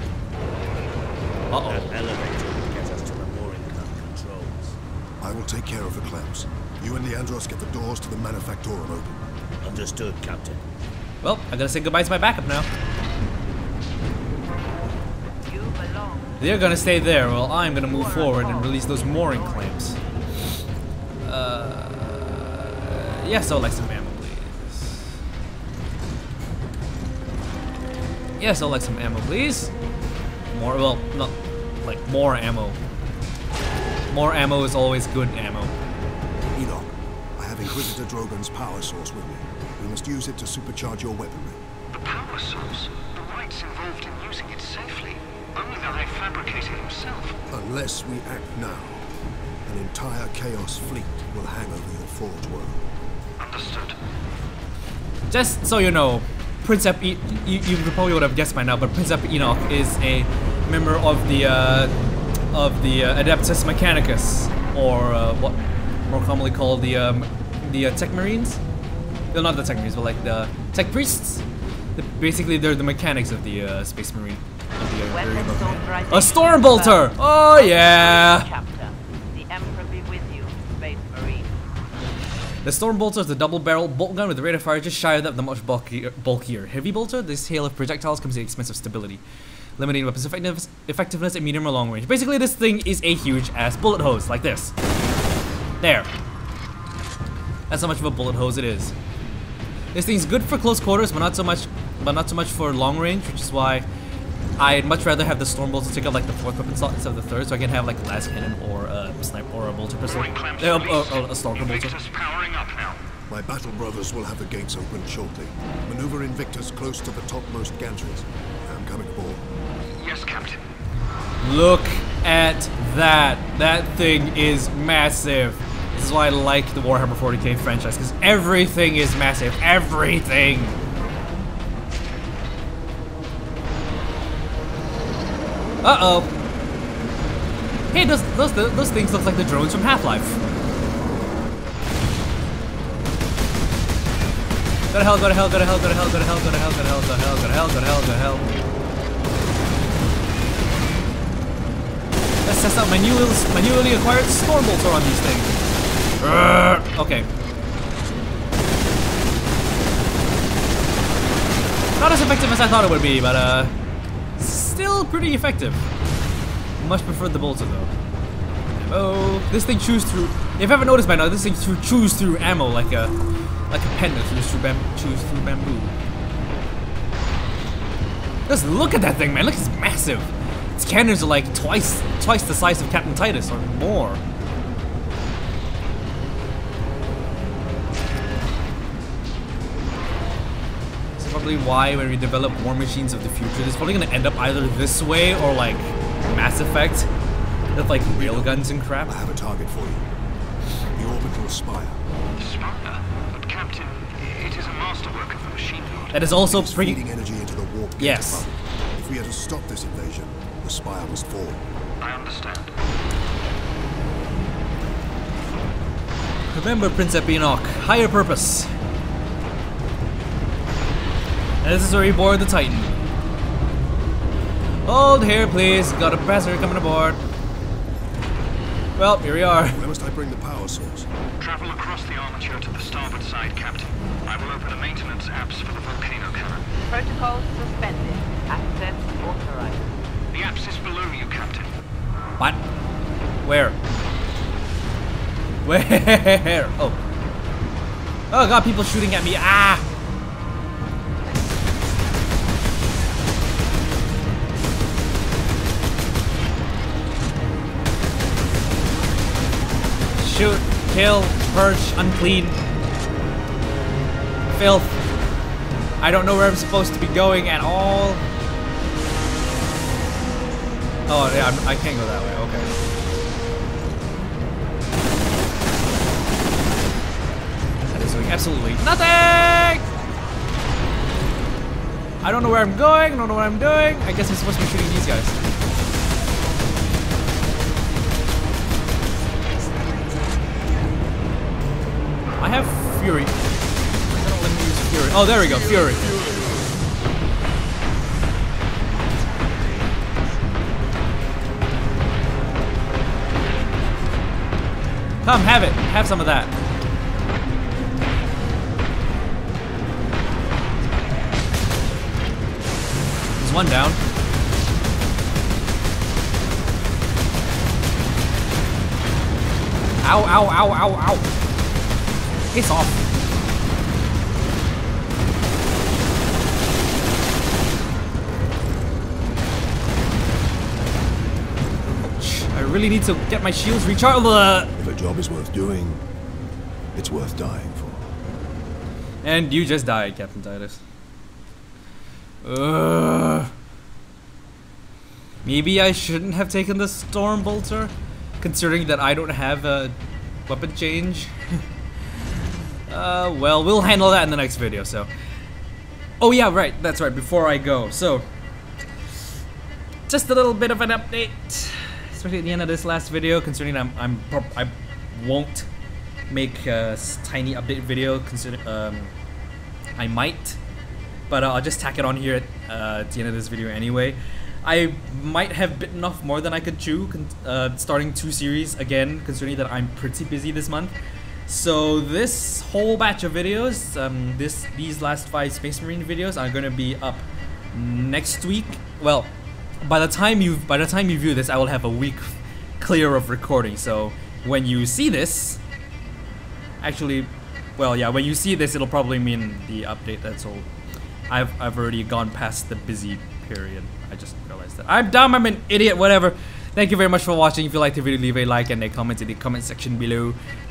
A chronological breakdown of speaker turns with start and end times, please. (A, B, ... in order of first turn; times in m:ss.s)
0:01.5-0:01.9 A
0:01.6-0:04.8 B
0:05.2-0:09.1 C
0:09.6-0:10.6 B
0:11.2-0:12.7 A
0:15.4-0:16.4 D
0:16.4-0:20.0 A
0:17.7-0:20.0 D
0:21.2-0:25.1 A
0:28.4-0:29.7 A
0:30.5-0:32.8 A
0:34.1-0:35.7 A
0:36.5-0:41.6 C
0:41.9-0:47.4 E
0:47.5-0:49.0 C
0:49.6-0:52.8 C
0:53.4-0:54.0 E
0:55.3-1:01.9 A
1:02.5-1:08.6 A
1:09.3-1:11.4 A
1:12.0-1:18.5 A
1:15.1-1:21.5 D
1:22.6-1:29.2 A
1:29.8-1:34.7 A
1:35.8-1:36.1 A
1:37.7-1:38.9 A
1:39.9-1:43.9 A
1:44.6-1:52.0 A
1:50.1-1:53.0 E
1:53.3-1:59.4 C
1:59.9-2:00.6 E
2:01.4-2:10.8 A
2:15.8-2:16.3 A
2:17.9-2:20.4 A
2:24.9-2:28.4 A
2:32.4-2:35.6 A
2:36.2-2:37.3 A
2:42.0-2:43.7 A
2:44.4-2:45.8 A
2:46.8-2:47.9 A
2:48.9-2:53.1 A
2:53.7-2:55.9 A
2:58.5-3:04.2 A
3:11.2-3:17.1 A
3:17.7-3:19.2 A
3:18.1-3:20.0 C
3:20.9-3:22.0 C
3:22.4-3:26.2 E
3:26.1-3:27.0 A
3:26.3-3:31.6 C
3:28.0-3:28.4 A
3:32.0-3:32.7 E
3:36.5-3:38.7 A
3:41.6-3:42.9 A
3:44.8-3:47.2 A
3:49.0-3:49.8 A
3:49.7-3:51.1 C
3:51.4-3:56.7 E
3:56.8-3:59.9 D
4:00.3-4:01.7 E
4:03.4-4:03.8 A
4:05.6-4:07.0 A
4:08.3-4:09.8 A
4:20.2-4:22.6 A
4:24.6-4:25.0 A
4:26.0-4:28.2 A
4:31.1-4:32.7 A
4:37.9-4:39.9 A
4:42.2-4:45.4 A
4:52.4-4:53.3 A
4:54.1-4:56.3 A
5:05.2-5:06.5 A
5:13.4-5:14.0 A
5:20.0-5:21.3 A
5:22.5-5:23.0 A
5:32.0-5:34.7 A
5:34.8-5:36.0 C
5:36.9-5:38.1 C
5:39.2-5:40.8 A
5:42.4-5:43.5 A
5:45.4-5:50.0 A
5:50.5-5:51.3 A
5:52.9-5:55.1 A
5:56.2-5:58.2 A
6:00.1-6:05.7 A
6:06.3-6:09.1 A
6:10.0-6:10.6 A
6:11.3-6:20.9 A
6:21.5-6:35.6 A
6:36.8-6:40.7 A
6:41.3-6:50.4 A